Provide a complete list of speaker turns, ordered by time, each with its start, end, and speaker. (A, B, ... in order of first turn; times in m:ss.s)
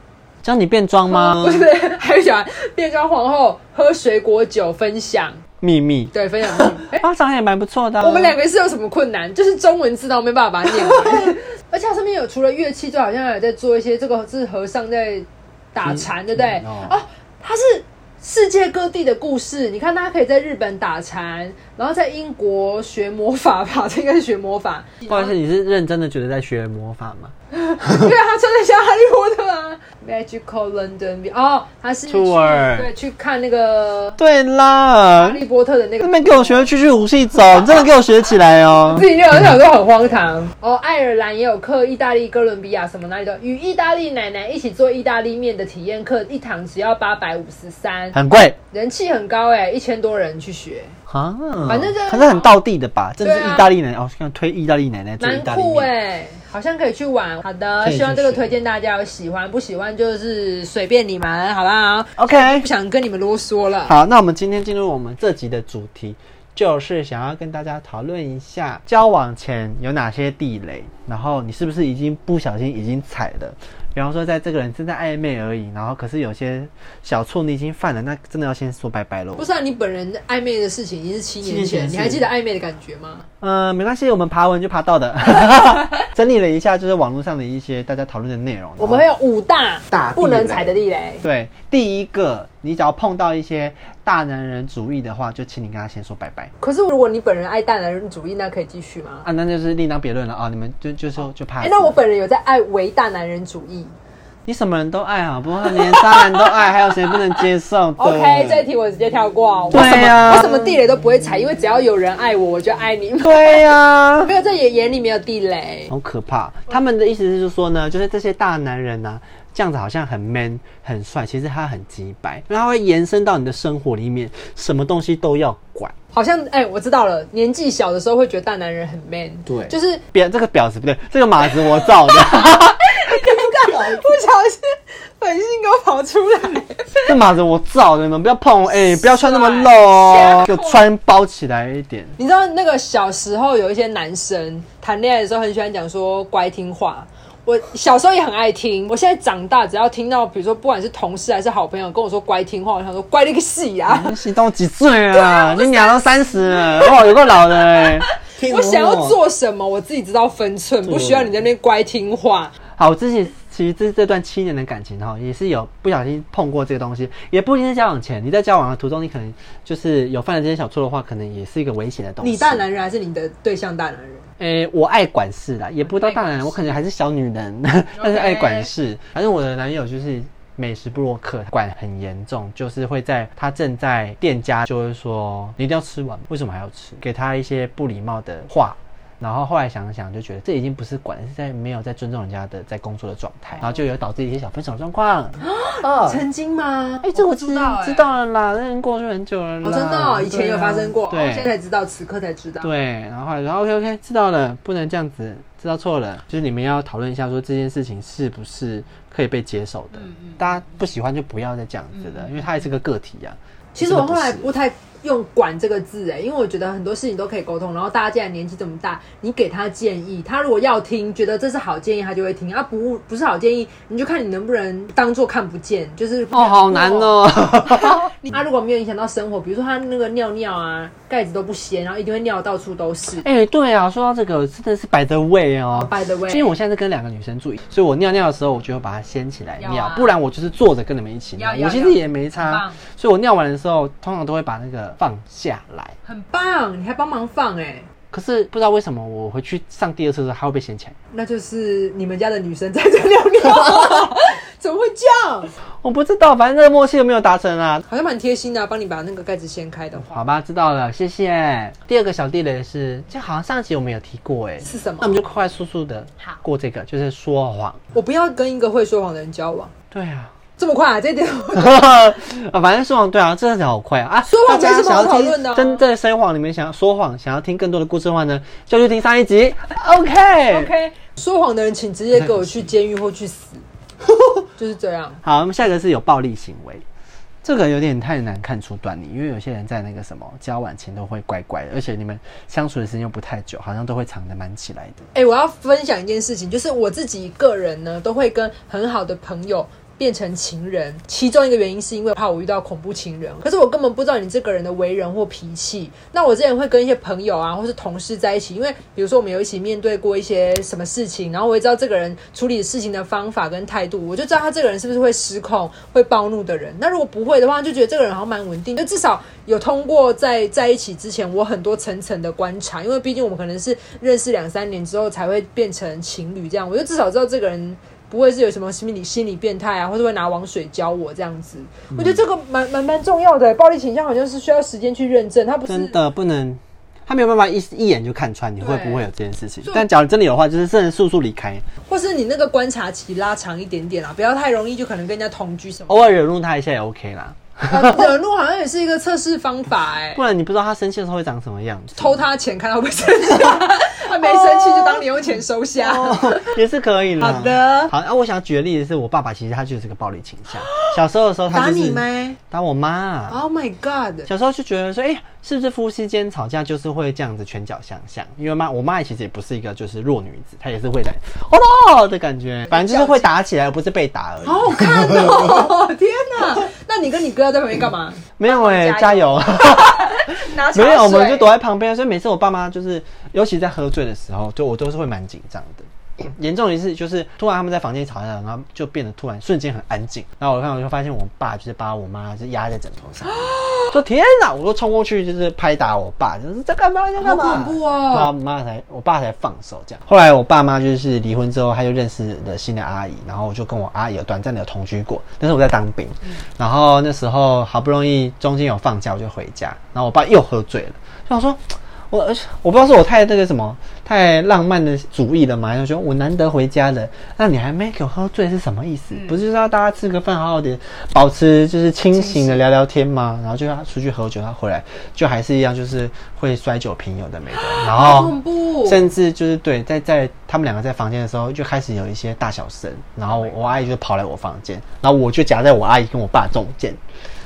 0:00.4-0:01.7 A
0:01.1-0:05.4 B
0:05.6-0:08.4 A
0:06.1-0:07.0 B
0:08.0-0:25.4 B
0:10.8-0:11.3 A
0:15.8-0:17.0 A
0:25.1-0:27.3 A
0:27.5-0:34.2 B
0:32.1-0:32.9 A
0:34.2-0:35.4 A
0:35.2-0:36.7 B
0:36.0-0:39.1 A
0:38.9-0:48.2 B
0:48.1-0:48.6 A
0:48.7-0:51.0 B
0:51.1-0:55.9 A
0:51.7-0:52.6 B
0:53.2-0:53.7 B
0:55.2-1:04.0 B
0:57.8-0:58.5 A
1:02.2-1:02.7 A
1:03.9-1:19.5 A
1:19.4-1:23.3 B
1:21.4-1:22.2 A
1:23.4-1:29.0 A
1:28.8-1:31.2 B
1:29.9-1:36.5 A
1:36.6-1:39.3 B
1:39.2-1:42.0 A
1:41.6-1:43.9 B
1:44.5-1:48.6 A
1:45.6-1:47.4 B
1:48.0-1:55.9 B
1:49.7-1:50.8 A
1:53.2-1:54.3 A
1:55.9-2:05.9 A
2:06.1-2:10.0 B
2:09.5-2:14.1 A
2:11.6-2:17.1 B
2:17.1-2:22.2 A
2:18.7-2:20.8 B
2:22.2-2:34.2 B
2:33.8-2:39.2 A
2:35.1-2:42.5 B
2:40.8-2:41.4 A
2:42.8-2:52.6 A
2:52.2-2:54.2 B
2:54.4-3:16.2 A
2:55.8-2:56.8 B
2:58.0-2:58.7 B
3:15.4-3:18.1 B
3:17.0-3:21.5 A
3:19.6-3:22.7 B
3:22.6-3:34.5 A
3:29.9-3:30.6 B
3:32.0-3:32.5 B
3:33.8-3:53.3 B
3:46.3-3:48.1 A
3:53.1-4:06.0 A
3:55.7-3:56.5 B
3:59.6-4:00.1 B
4:01.4-4:02.8 B
4:06.0-4:07.9 B
4:08.1-4:11.0 A
4:11.1-4:15.5 B
4:15.8-4:17.9 A
4:17.9-4:20.2 B
4:20.0-4:27.8 A
4:24.6-4:25.2 B
4:27.9-4:29.7 B
4:29.9-4:30.3 A
4:30.6-4:32.0 B
4:31.6-4:40.7 A
4:34.2-4:35.8 B
4:40.5-4:43.6 B
4:42.1-4:42.7 A
4:44.6-4:45.2 B
4:45.2-4:46.8 A
4:47.4-4:55.0 A
4:55.1-5:36.0 B
5:31.9-5:32.2 A
5:35.7-5:41.6 A
5:38.6-5:39.1 B
5:41.9-5:46.2 B
5:45.9-5:48.1 A
5:47.7-5:50.2 B
5:50.2-5:52.2 A
5:52.0-5:56.6 B
5:54.2-5:55.1 A
5:55.8-6:03.4 A
5:57.2-5:57.9 B
6:00.6-6:00.9 B
6:01.5-6:02.4 B
6:03.3-6:04.3 B
6:04.3-6:15.6 A
6:12.7-6:13.3 B
6:14.4-6:21.5 B
6:18.4-6:33.4 A
6:33.2-6:34.0 B
6:33.9-7:17.0 A
6:37.2-6:38.3 B
6:59.1-6:59.4 B
7:02.1-7:02.6 B
7:07.5-7:09.1 B
7:13.3-7:13.9 B